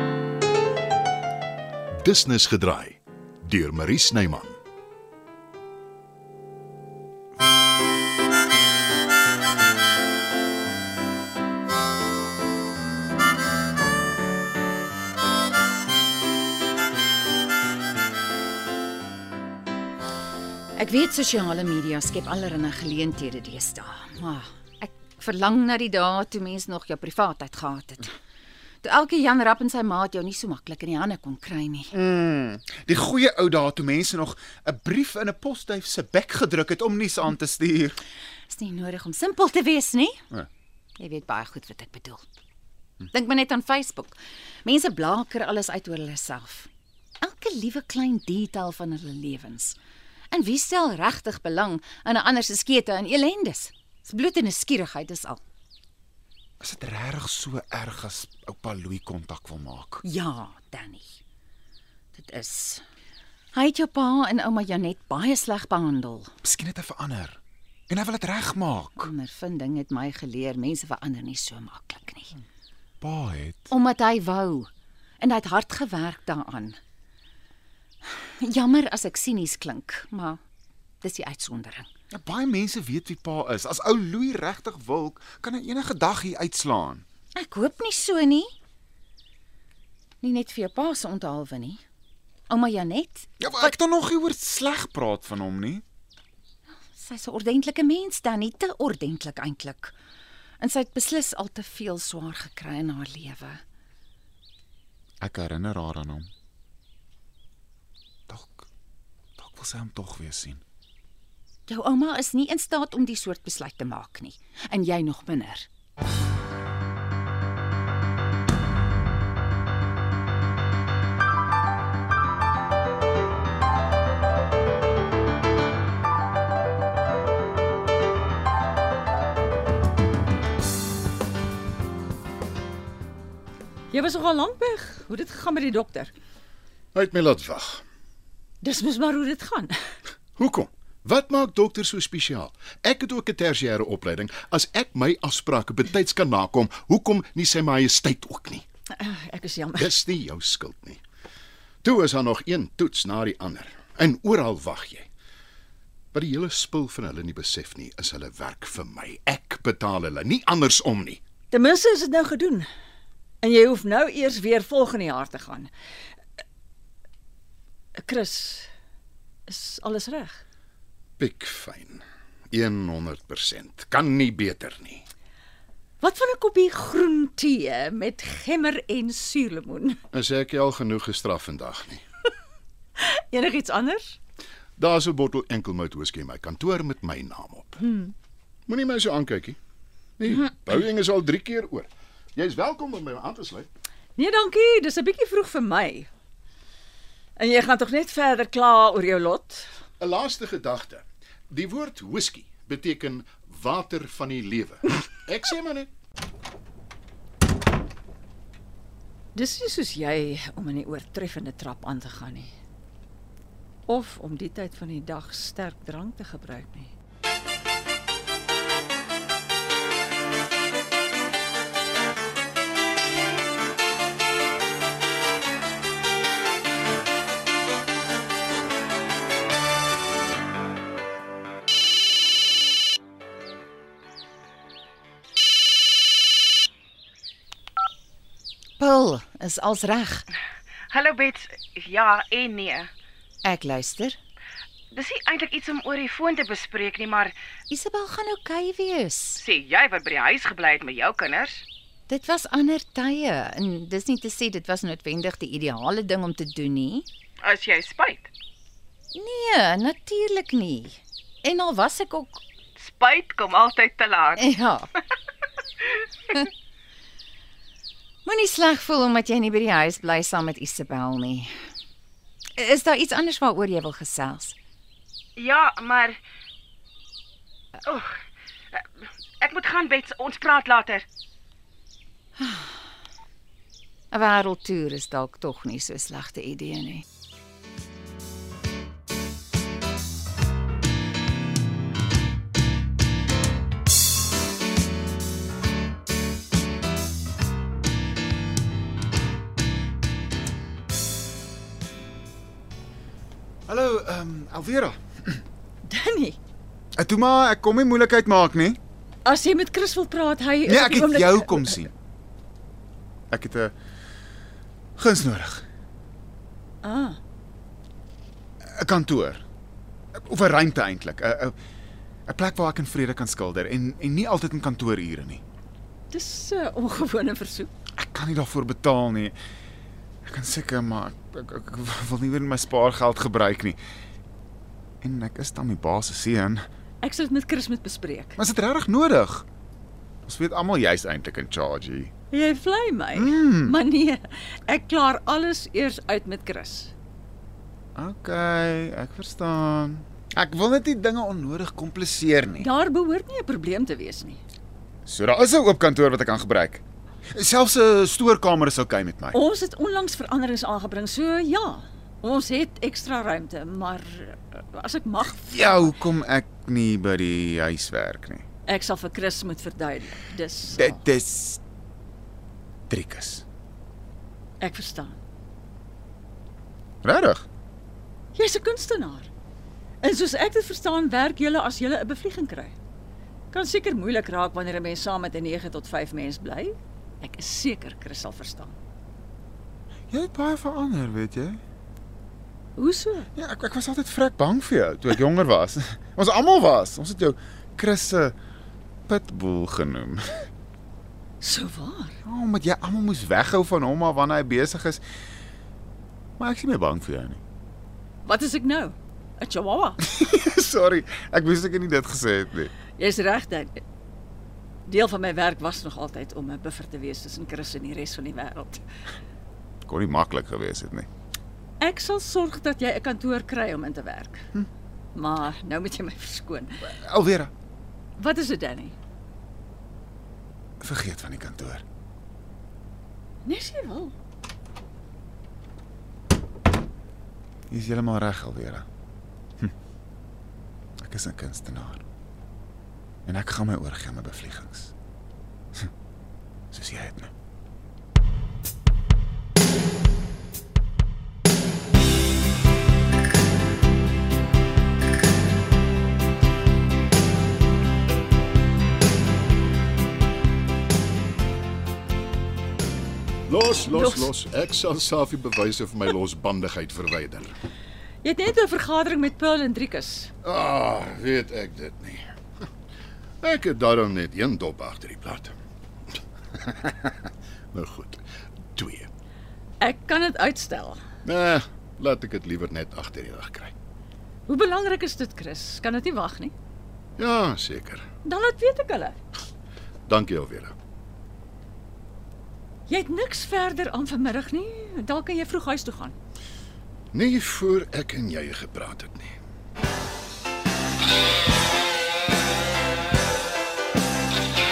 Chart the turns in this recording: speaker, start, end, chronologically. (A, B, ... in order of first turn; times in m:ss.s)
0:02.0-0:04.6 A
0:20.8-0:28.1 B
0:28.8-0:31.9 B
0:31.9-0:38.0 C
0:38.5-0:40.2 B
0:41.0-0:42.2 B
0:43.1-0:46.7 B
0:47.2-0:49.8 B
0:50.3-0:55.4 B
0:56.6-1:00.0 C
1:00.0-1:01.2 B
1:02.1-1:02.8 B
1:03.5-1:06.3 B
1:06.4-1:07.4 C
1:07.9-1:09.1 C
1:09.0-1:12.3 B
1:13.0-1:13.7 C
1:13.7-1:14.7 B
1:15.2-1:16.8 B
1:18.0-1:20.4 B
1:21.0-1:21.9 B
1:22.1-1:27.0 C
1:27.4-1:28.5 B
1:30.2-1:31.8 B
1:32.5-1:33.8 B
1:33.4-1:35.8 C
1:36.9-1:39.9 B
1:40.6-1:43.6 B
1:45.2-1:46.3 C
1:48.3-1:48.7 C
1:49.4-1:50.6 C
1:51.7-1:55.7 B
2:13.9-2:16.1 D
2:16.9-2:17.8 A
2:18.6-2:19.8 D
2:20.4-2:28.6 A
2:29.0-2:29.9 D
2:29.8-2:31.0 A
2:31.8-2:35.1 A
2:36.1-2:41.2 A
2:41.5-2:42.7 D
2:43.4-2:45.7 D
2:48.0-2:48.7 D
2:49.5-2:50.4 D
2:51.2-2:55.0 A
2:56.0-3:00.0 D
3:00.1-3:02.0 A
3:03.0-3:04.2 D
3:04.8-3:07.8 A
3:07.8-3:08.1 D
3:08.7-3:09.6 A
3:10.2-3:13.7 A
3:14.2-3:16.1 D
3:17.4-3:19.7 D
3:20.0-3:25.9 A
3:29.3-3:32.5 D
3:33.9-3:36.9 D
3:58.8-4:00.2 B
4:00.9-4:02.9 E
4:03.4-4:04.2 B
4:04.9-4:07.3 E
4:07.7-4:09.4 B
4:09.4-4:11.6 E
4:12.1-4:17.0 B
4:17.4-4:18.3 E
4:19.1-4:22.4 B
4:22.9-4:24.5 E
4:24.4-4:24.9 B
4:28.2-4:31.5 B
4:32.6-4:34.5 B
4:35.4-4:36.2 E
4:39.4-4:41.0 E
4:42.4-4:42.7 B
4:44.1-4:47.0 B
5:03.7-5:05.4 C
5:05.8-5:06.4 D
5:07.0-5:08.8 C
5:09.2-5:11.8 D
5:10.6-5:11.9 C
5:13.3-5:13.7 C
5:15.0-5:15.6 C
5:16.8-5:17.2 D
5:18.7-5:19.4 C
5:20.2-5:21.5 C
5:22.3-5:25.4 C
5:26.1-5:27.7 D
5:28.0-5:29.4 C
5:30.2-5:33.8 C
5:35.0-5:36.6 C
5:37.0-5:38.4 D
5:38.4-5:39.4 C
5:40.2-5:42.1 C
5:42.3-5:46.9 D
5:43.1-5:43.8 C
5:48.0-5:52.7 C
5:52.6-5:54.4 D
5:55.0-5:59.4 C
5:59.3-6:06.0 D
6:05.3-6:08.4 C
6:08.7-6:11.0 D
6:10.7-6:11.6 C
6:12.9-6:13.4 C
6:14.6-6:15.2 D
6:17.0-6:17.4 C
6:18.3-6:19.3 D
6:20.0-6:22.7 D
6:23.5-6:28.7 D
6:30.1-6:31.6 C
6:32.8-6:33.3 D
6:33.4-6:38.3 C
6:39.1-6:40.4 C
6:41.4-6:42.2 D
6:42.2-6:45.0 C
6:46.4-6:47.4 C
6:48.2-6:50.0 D
6:50.0-6:52.7 C
6:53.0-6:53.8 D
6:54.9-6:58.8 D
6:59.8-7:01.1 C
7:01.8-7:04.5 D
7:05.1-7:06.9 D
7:06.8-7:07.5 C
7:08.2-7:09.0 D
7:10.8-7:11.8 C
7:13.4-7:14.1 D
7:17.7-7:18.9 C
7:21.0-7:22.0 C
7:23.2-7:24.9 C
7:26.7-7:27.3 C
7:43.5-7:47.5 A
7:43.9-7:44.3 D
7:48.2-7:50.3 D
7:50.4-7:52.2 A
7:53.4-7:55.5 A
7:56.5-7:59.1 A
7:59.8-8:01.0 D
8:01.2-8:03.7 A
8:04.5-8:06.5 D
8:07.2-8:08.0 A
8:08.2-8:09.2 D
8:10.1-8:10.7 A
8:12.9-8:16.1 D
8:17.1-8:19.4 A